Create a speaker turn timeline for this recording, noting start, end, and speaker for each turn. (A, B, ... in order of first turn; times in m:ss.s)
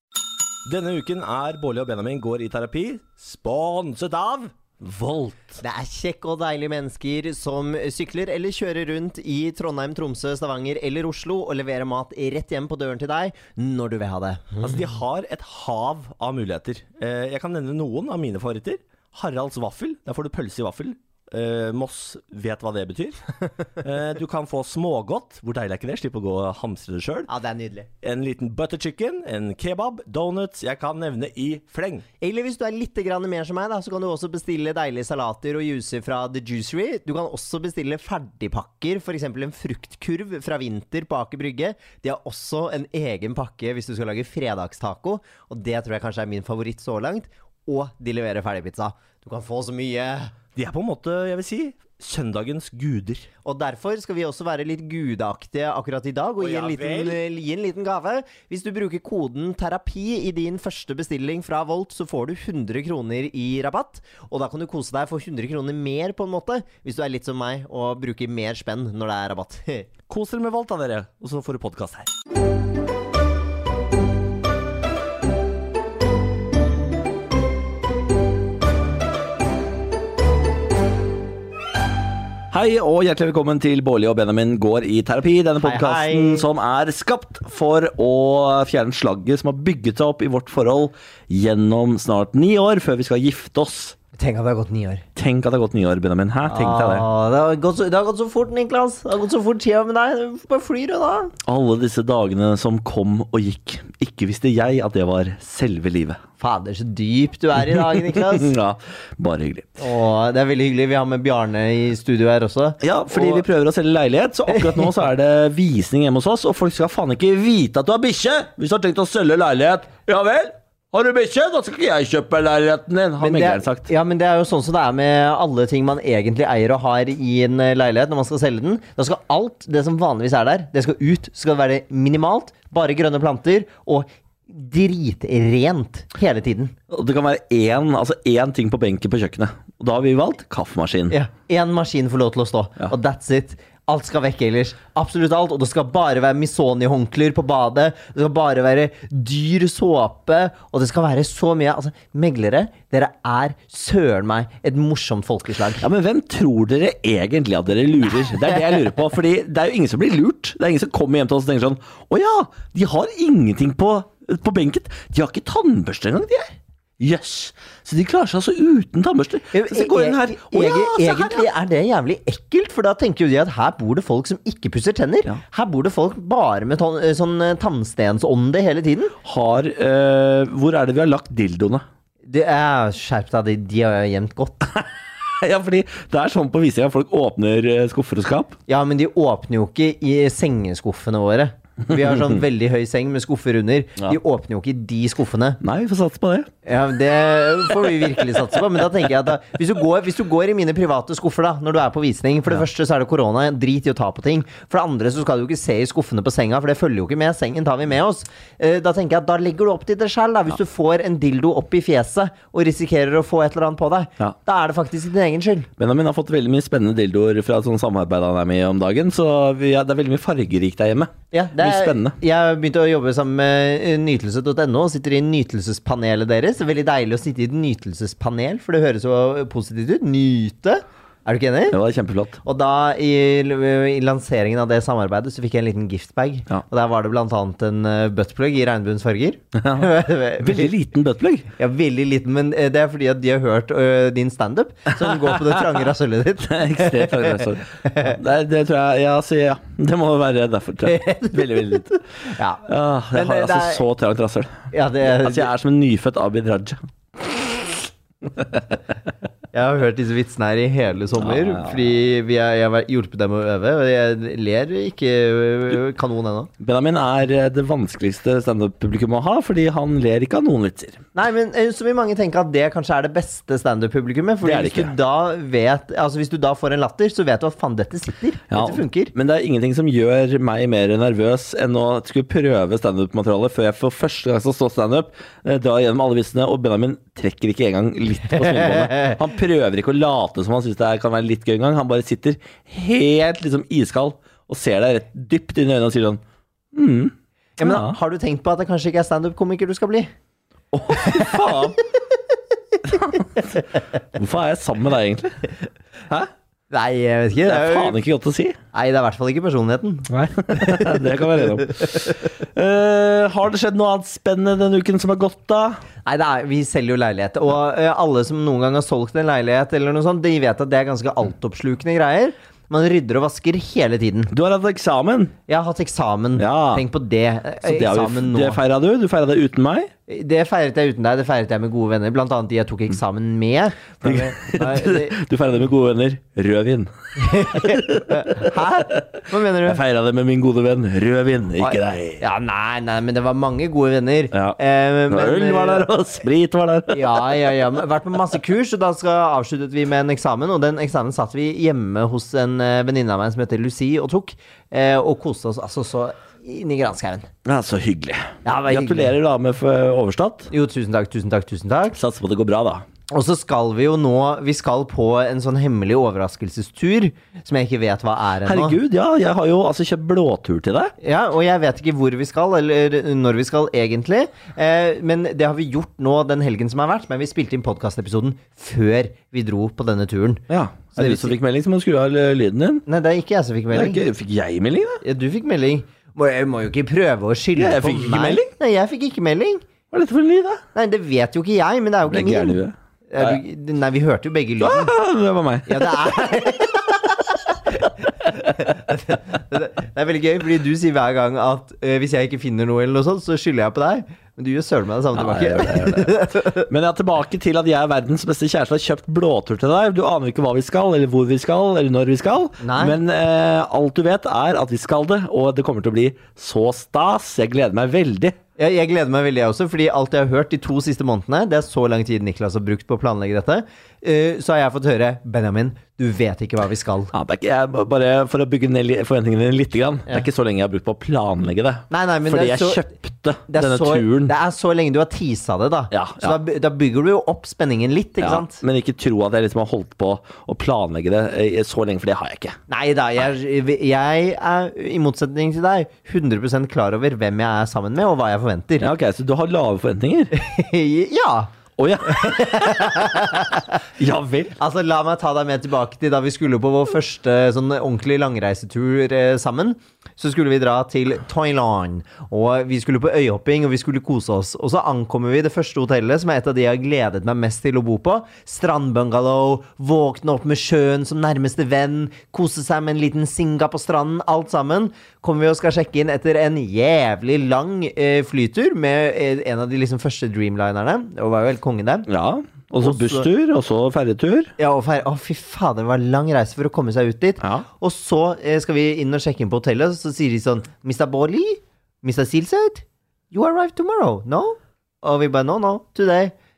0:00.6-0:05.6 A
0:05.6-0:14.8 B
0:14.6-0:23.2 A
0:23.8-0:27.3 A
0:27.3-0:27.9 B
0:28.0-0:32.0 A
0:32.2-0:50.3 B
0:50.6-0:53.3 A
0:53.4-1:09.9 B
0:56.4-0:57.2 A
1:10.1-1:12.1 A
1:22.5-1:33.9 A
1:25.6-1:26.4 B
1:34.1-1:35.0 B
1:35.2-1:37.1 A
1:36.5-1:41.3 B
1:41.4-1:46.2 A
1:46.4-1:48.5 B
1:47.7-1:49.8 A
1:49.8-1:53.4 B
1:52.8-2:03.9 A
1:54.5-1:54.9 B
2:03.2-2:16.7 B
2:16.9-2:21.1 A
2:21.1-2:35.8 B
2:35.8-2:51.5 A
2:49.5-2:59.1 B
2:59.2-3:01.8 A
3:02.3-3:04.8 B
3:05.4-3:08.6 A
3:08.7-3:15.6 B
3:15.6-3:16.5 A
3:16.6-3:35.7 B
3:35.8-3:42.2 A
3:41.3-3:51.8 B
3:51.7-3:52.4 A
3:52.4-4:00.7 B
3:59.5-4:01.5 A
4:01.6-4:08.1 B
4:06.4-4:12.0 A
4:10.8-4:13.8 B
4:12.6-4:17.5 A
4:14.7-4:15.5 B
4:19.5-4:26.5 B
4:21.2-4:21.8 A
4:26.6-4:31.0 A
4:31.1-4:39.1 B
4:34.4-4:34.9 A
4:38.5-4:56.2 A
4:48.4-4:49.2 B
4:56.7-4:58.0 A
4:57.6-5:00.1 B
5:00.7-5:01.8 A
5:01.0-5:01.5 B
5:02.8-5:03.4 A
5:04.1-5:05.5 A
5:06.7-5:08.0 B
5:07.4-5:08.6 A
5:08.7-5:11.8 B
5:10.1-5:15.8 A
5:16.0-5:24.3 B
5:24.3-5:25.3 A
5:25.5-5:28.6 B
5:26.4-5:26.8 A
5:27.6-5:29.9 A
5:30.1-5:35.2 B
5:34.0-5:39.0 A
5:37.2-5:39.8 B
5:39.6-5:42.2 A
5:41.6-5:45.9 B
5:44.3-5:44.6 A
5:45.1-5:47.4 A
5:46.9-5:57.3 B
5:57.4-6:00.5 A
5:58.4-5:59.2 B
6:00.5-6:02.0 B
6:02.0-6:02.8 A
6:03.1-6:08.8 B
6:08.4-6:10.9 A
6:11.0-6:20.4 B
6:20.5-6:22.8 A
6:20.9-6:21.3 B
6:22.9-6:24.0 B
6:23.7-6:25.0 A
6:25.0-6:29.6 B
6:27.6-6:28.5 A
6:29.9-6:30.6 A
6:30.7-6:34.9 B
6:32.0-6:33.4 A
6:34.6-6:35.9 A
6:35.7-6:46.7 B
6:45.1-6:58.4 A
6:52.6-6:53.0 B
6:58.6-7:07.1 B
7:07.1-7:14.3 A
7:11.9-7:12.9 B
7:13.5-7:18.6 B
7:15.9-7:16.4 A
7:18.2-7:22.6 A
7:22.7-7:28.9 B
7:28.8-7:30.3 A
7:30.3-7:31.5 B
7:31.8-7:32.5 A
7:32.0-7:33.6 B
7:34.0-7:34.6 A
7:34.6-8:02.1 B
8:02.1-8:04.5 A
8:02.8-8:03.3 B
8:04.6-8:16.3 B
8:07.4-8:07.7 A